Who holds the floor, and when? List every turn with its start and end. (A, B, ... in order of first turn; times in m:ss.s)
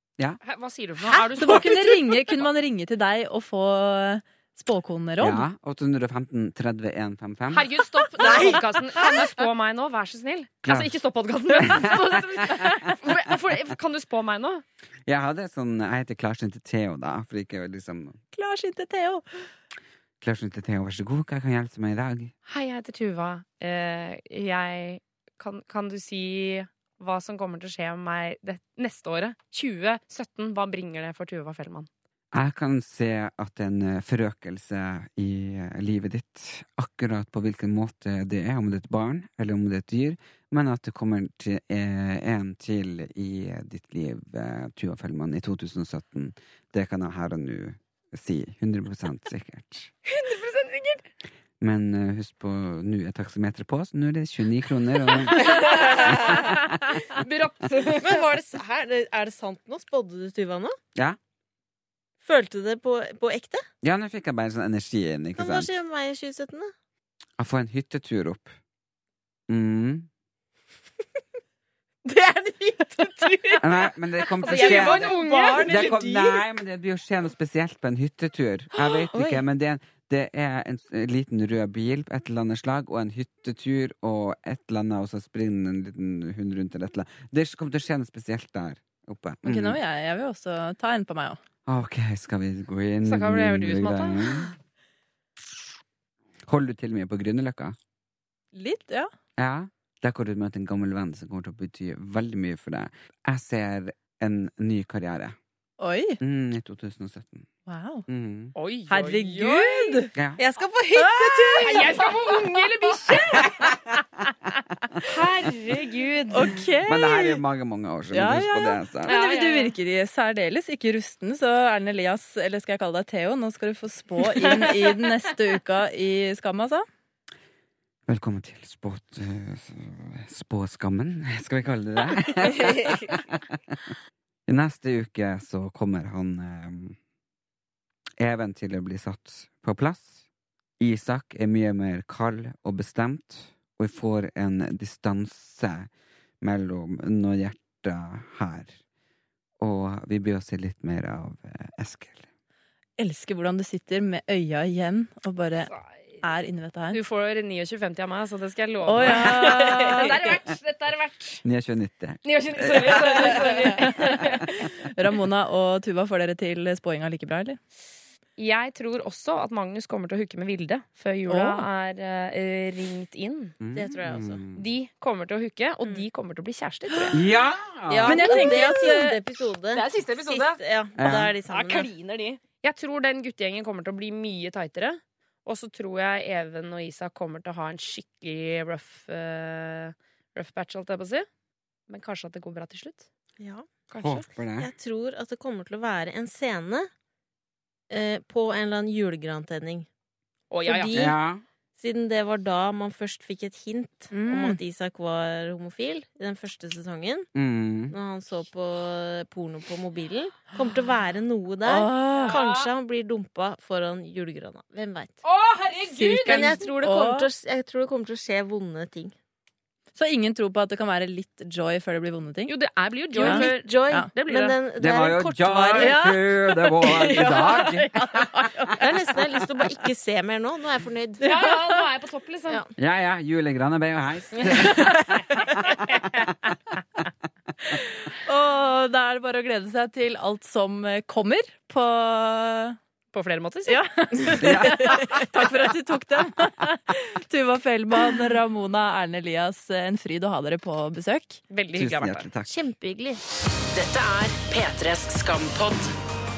0:00.4-0:02.4 A
0:01.4-0:05.4 B
0:05.2-0:08.5 C
0:07.5-0:14.6 A
0:08.2-0:09.2 D
0:10.6-0:11.0 C
0:11.6-0:12.8 C
0:15.0-0:18.2 C
0:18.3-0:19.2 B
0:20.2-0:22.3 C
0:22.5-0:31.9 A
0:32.3-0:49.9 C
0:50.1-0:51.0 A
0:51.6-0:56.6 C
0:55.5-0:56.6 A
0:55.7-0:56.3 D
0:57.1-0:58.3 A
0:58.0-1:00.8 D
1:02.2-1:03.6 D
1:03.8-1:05.7 C
1:05.4-1:06.7 D
1:07.4-1:08.6 C
1:09.5-1:10.1 C
1:12.0-1:13.7 D
1:13.6-1:29.8 C
1:14.4-1:16.0 A
1:14.5-1:16.0 D
1:15.2-1:16.0 B
1:19.1-1:19.4 D
1:29.4-1:31.4 B
1:31.7-1:34.5 C
1:33.0-1:34.5 A
1:36.5-1:37.8 C
1:38.5-1:39.1 B
1:39.4-1:45.4 C
1:45.8-1:46.2 B
1:46.2-1:47.5 C
1:47.7-1:48.1 B
1:48.1-1:48.5 C
1:48.6-1:50.1 A
1:48.9-1:50.1 B
1:50.2-1:50.4 C
1:50.4-1:52.4 D
1:51.0-1:51.9 B
1:51.6-1:53.7 A
1:55.0-1:56.6 A
1:56.3-1:57.4 B
1:56.9-1:59.2 C
1:58.1-2:06.9 B
1:59.1-1:59.7 A
2:08.1-2:13.9 C
2:14.5-2:17.0 C
2:18.2-2:20.2 C
2:20.8-2:25.9 C
2:26.4-2:28.8 C
2:29.6-2:32.3 C
2:33.0-2:35.7 B
2:35.6-2:36.2 A
2:36.2-2:37.0 B
2:36.9-2:41.4 A
2:38.9-2:40.1 B
2:41.4-2:44.7 C
2:42.2-2:44.6 A
2:43.4-2:43.9 B
2:45.0-2:47.6 B
2:48.4-2:53.6 A
2:51.3-2:51.7 B
2:53.6-2:54.6 C
2:53.7-2:54.4 D
2:54.6-2:57.2 A
2:57.1-2:58.3 C
2:57.9-3:01.9 D
2:58.1-2:59.2 B
2:58.3-2:58.7 A
2:59.7-3:11.3 A
3:01.0-3:01.3 C
3:11.9-3:13.1 A
3:13.4-3:13.8 D
3:13.9-3:14.2 A
3:14.0-3:14.7 C
3:14.6-3:16.9 D
3:17.9-3:19.9 D
3:20.5-3:21.1 A
3:20.6-3:21.2 D
3:20.9-3:21.4 C
3:21.8-3:27.3 D
3:24.1-3:24.6 B
3:27.4-3:28.0 C
3:27.9-3:35.2 D
3:31.7-3:32.4 B
3:32.2-3:32.7 A
3:35.2-3:36.6 A
3:35.9-3:37.3 B
3:36.2-3:39.2 D
3:40.0-3:42.5 B
3:42.5-3:44.6 A
3:43.1-3:51.2 D
3:43.2-3:44.1 B
3:44.8-3:48.3 C
3:45.8-3:46.2 B
3:46.8-3:48.5 B
3:51.2-3:52.6 A
3:52.8-3:56.0 C
3:58.3-4:02.8 B
4:03.1-4:04.4 A
4:03.7-4:11.4 B
4:04.4-4:05.3 C
4:11.5-4:12.3 A
4:11.7-4:12.5 C
4:12.5-4:13.2 D
4:13.7-4:15.9 E